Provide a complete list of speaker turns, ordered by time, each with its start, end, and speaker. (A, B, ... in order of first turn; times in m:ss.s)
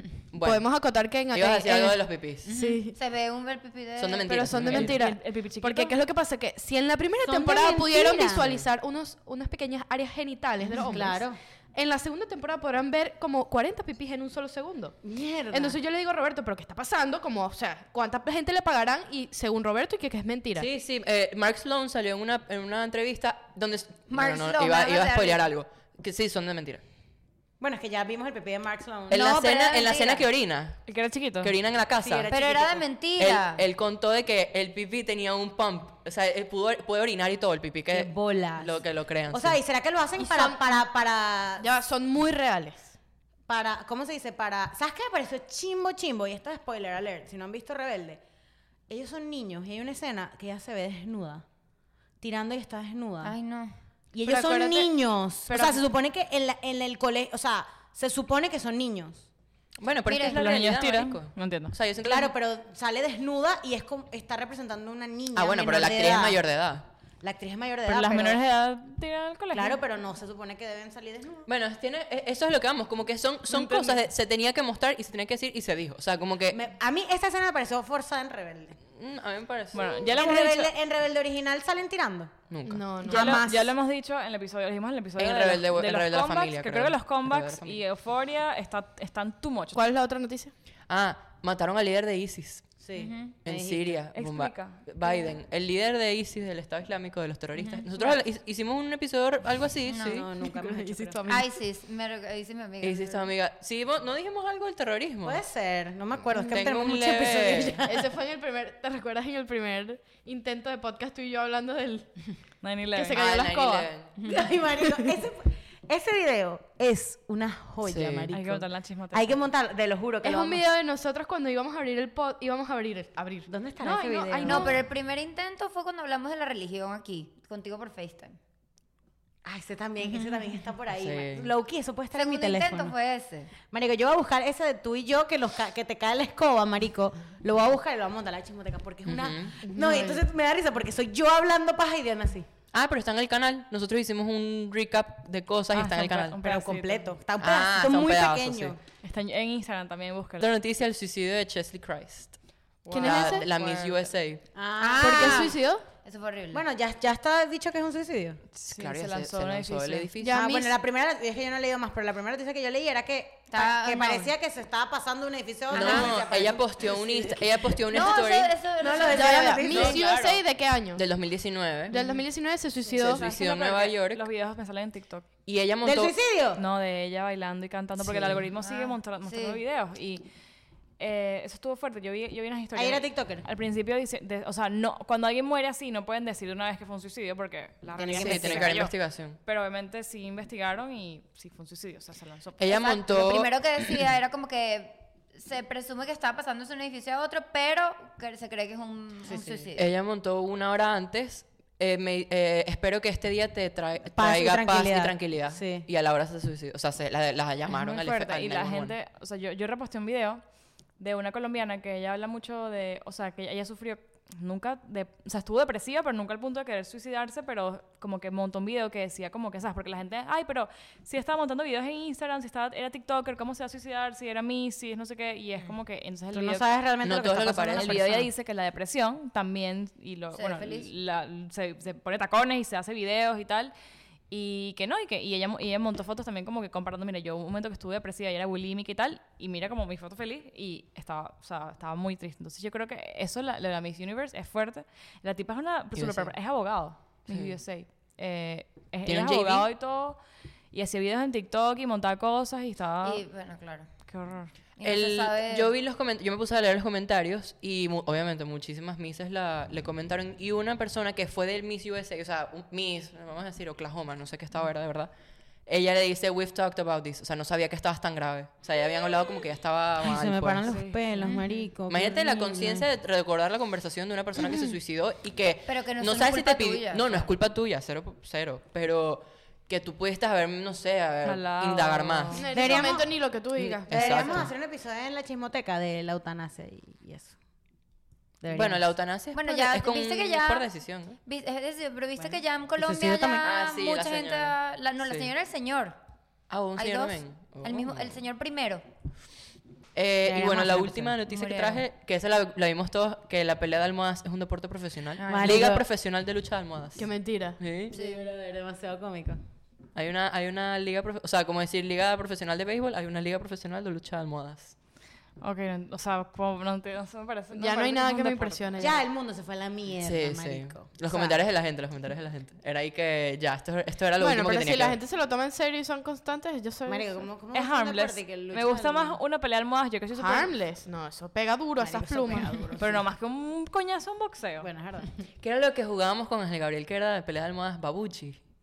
0:00.2-0:03.0 A
0:00.3-0:00.7 B
0:01.3-0:02.5 B
0:02.6-0:04.6 C
0:04.0-0:05.0 B
0:04.3-0:15.0 A
0:04.7-0:05.9 D
0:07.2-0:08.6 E
0:10.7-0:11.4 E
0:15.0-0:15.8 E
0:15.5-0:20.7 A
0:20.6-0:26.8 B
0:24.1-0:25.4 C
0:27.6-0:29.3 E
0:29.1-0:30.9 B
0:29.1-0:30.2 C
0:30.9-0:31.5 D
0:31.4-0:32.3 B
0:32.0-0:32.8 E
0:32.3-0:33.6 C
0:33.2-0:39.6 B
0:37.9-0:41.7 E
0:40.2-0:40.8 A
0:41.6-0:42.9 A
0:43.5-0:48.2 E
0:48.9-0:51.4 E
0:52.2-0:53.3 E
0:53.2-0:53.8 C
0:54.1-0:59.3 E
0:54.2-0:54.9 A
0:55.5-0:55.8 A
0:59.8-1:02.3 B
1:00.1-1:00.4 C
1:00.2-1:01.7 D
1:02.0-1:06.4 E
1:05.4-1:06.9 B
1:07.2-1:08.4 E
1:07.9-1:09.8 D
1:09.5-1:11.5 E
1:11.5-1:16.6 B
1:13.6-1:13.9 D
1:16.5-1:18.8 E
1:19.0-1:20.1 B
1:19.7-1:20.7 D
1:20.1-1:22.3 E
1:22.5-1:22.8 B
1:22.7-1:23.4 A
1:23.0-1:29.8 D
1:23.1-1:23.7 E
1:25.2-1:27.8 B
1:29.7-1:30.5 A
1:30.9-1:32.7 B
1:32.8-1:34.0 E
1:33.0-1:33.3 C
1:33.4-1:40.4 B
1:34.1-1:34.9 D
1:37.9-1:38.2 D
1:39.9-1:40.2 C
1:40.0-1:41.3 E
1:40.6-1:41.5 A
1:41.3-1:43.3 C
1:42.8-1:45.4 B
1:45.2-1:48.1 E
1:46.4-1:47.8 B
1:47.8-1:52.3 A
1:52.6-1:53.2 D
1:52.9-1:53.9 A
1:53.2-1:54.1 B
1:54.2-2:00.6 E
1:57.8-1:58.3 B
1:58.3-1:59.4 D
2:00.2-2:04.8 A
2:03.5-2:04.8 E
2:04.4-2:08.4 C
2:09.4-2:13.0 E
2:10.9-2:11.5 B
2:12.1-2:13.5 C
2:13.7-2:22.5 E
2:19.0-2:19.6 B
2:19.6-2:20.2 A
2:22.7-2:26.4 B
2:25.7-2:27.1 D
2:26.4-2:28.8 E
2:27.4-2:28.8 B
2:29.0-2:30.5 D
2:30.4-2:32.4 B
2:32.9-2:34.0 D
2:32.9-2:33.5 A
2:33.0-2:34.4 B
2:34.6-2:35.5 E
2:34.8-2:36.6 C
2:35.0-2:35.8 A
2:36.5-2:38.4 E
2:38.5-2:40.1 D
2:38.7-2:40.4 B
2:40.2-2:40.8 A
2:40.3-2:47.5 E
2:43.5-2:44.3 C
2:45.7-2:48.5 B
2:45.8-2:46.2 C
2:47.9-2:49.9 C
2:48.8-2:50.0 E
2:49.1-2:51.0 A
2:49.7-2:50.4 D
2:51.0-2:52.0 B
2:51.9-2:53.2 A
2:52.9-2:55.3 D
2:52.9-2:54.2 B
2:55.5-2:56.2 B
2:55.8-2:56.6 E
2:56.6-3:00.2 D
2:58.0-2:58.4 B
2:58.6-2:59.6 C
3:01.0-3:13.0 D
3:02.8-3:03.4 E
3:08.0-3:08.8 E
3:08.2-3:09.4 B
3:12.6-3:14.0 B
3:12.7-3:19.9 C
3:19.3-3:19.7 E
3:19.8-3:29.0 B
3:24.2-3:25.9 E
3:27.7-3:30.4 D
3:31.0-3:46.6 D
3:46.3-3:48.3 E
3:47.0-3:48.0 B
3:47.7-3:53.7 D
3:50.3-3:50.9 C
3:54.3-4:13.2 D
4:06.0-4:06.3 B
4:07.3-4:07.6 B
4:09.1-4:09.7 B
4:13.0-4:13.9 C
4:14.1-4:14.5 D
4:14.8-4:15.7 C
4:14.8-4:25.1 B
4:25.7-4:30.8 B
4:30.0-4:32.9 E
4:30.6-4:31.6 D
4:31.2-4:31.5 C
4:31.9-4:42.4 B
4:35.7-4:37.3 C
4:41.2-4:42.5 D
4:42.4-4:44.5 A
4:42.5-4:43.1 E
4:43.6-4:44.5 B
4:43.9-4:47.4 E
4:48.4-4:48.8 E
4:48.5-4:51.2 B
4:49.3-4:50.7 C
4:51.2-4:56.0 C
4:52.2-4:53.4 E
4:53.4-4:55.3 B
4:56.5-4:58.2 B
4:56.8-4:58.8 C
5:00.0-5:08.0 B
5:00.2-5:01.2 E
5:01.3-5:01.8 C
5:05.2-5:05.7 C
5:05.3-5:05.8 E
5:07.0-5:07.6 A
5:07.9-5:09.4 E
5:07.9-5:08.2 C
5:10.0-5:14.7 B
5:15.4-5:19.0 D
5:17.5-5:19.0 A
5:18.8-5:21.4 E
5:20.0-5:25.0 B
5:24.2-5:27.2 A
5:26.9-5:29.2 E
5:27.5-5:30.5 D
5:30.2-5:32.8 A
5:31.8-5:33.0 E
5:32.8-5:34.7 D
5:34.6-5:35.2 E
5:35.4-5:38.4 B